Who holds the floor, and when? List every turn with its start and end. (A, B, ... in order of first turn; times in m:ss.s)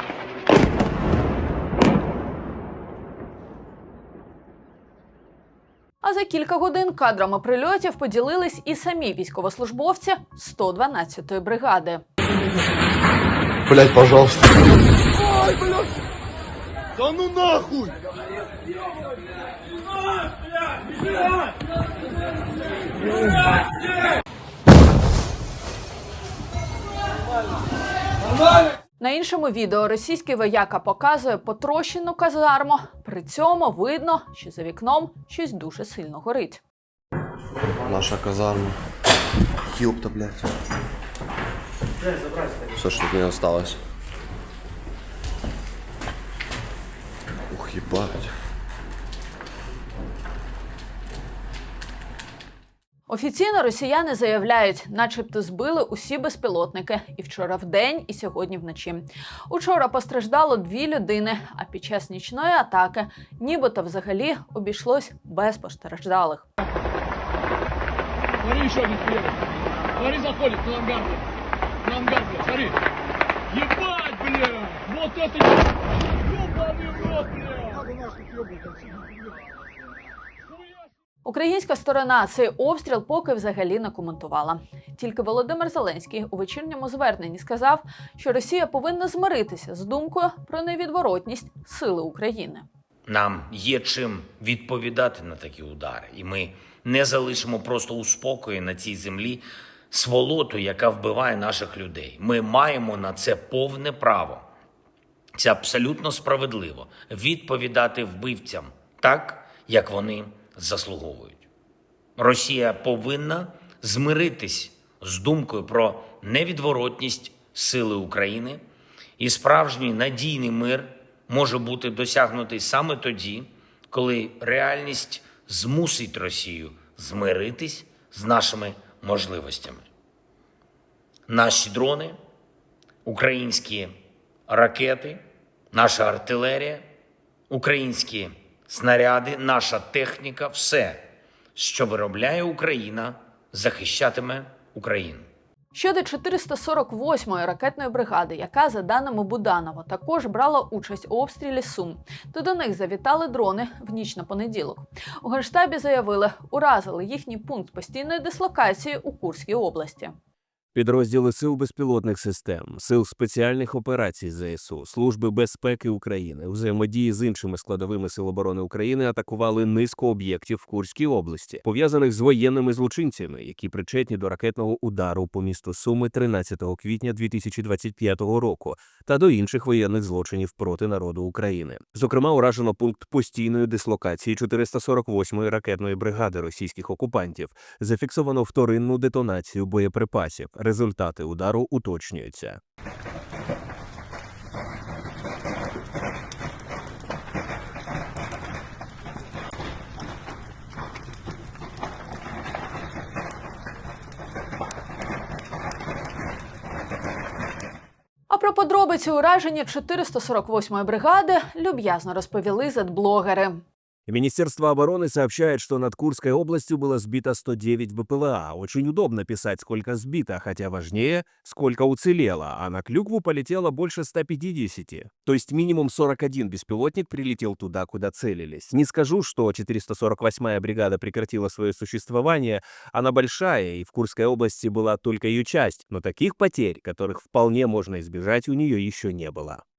0:06.0-0:12.0 A
0:29.0-0:36.6 A
0:37.8-0:38.8 B
0:39.7-0:40.5 B
0:42.6-0:43.8 B
0:47.5-0:48.3 B
0:53.1-1:06.5 A
1:08.4-1:09.4 C
1:10.0-1:11.2 C
1:11.8-1:12.7 C
1:13.5-1:15.5 C
1:16.3-1:17.8 C
1:21.2-1:32.6 A
1:33.1-1:44.4 D
1:45.4-1:51.4 D
1:52.2-1:58.6 D
1:59.2-2:09.8 D
2:11.3-2:12.2 D
2:13.0-2:13.9 D
2:14.5-2:16.9 D
2:17.5-2:21.0 D
2:21.6-2:25.2 D
2:25.7-2:40.1 A
2:40.7-3:12.6 E
3:28.3-3:33.6 A
3:34.1-3:59.6 E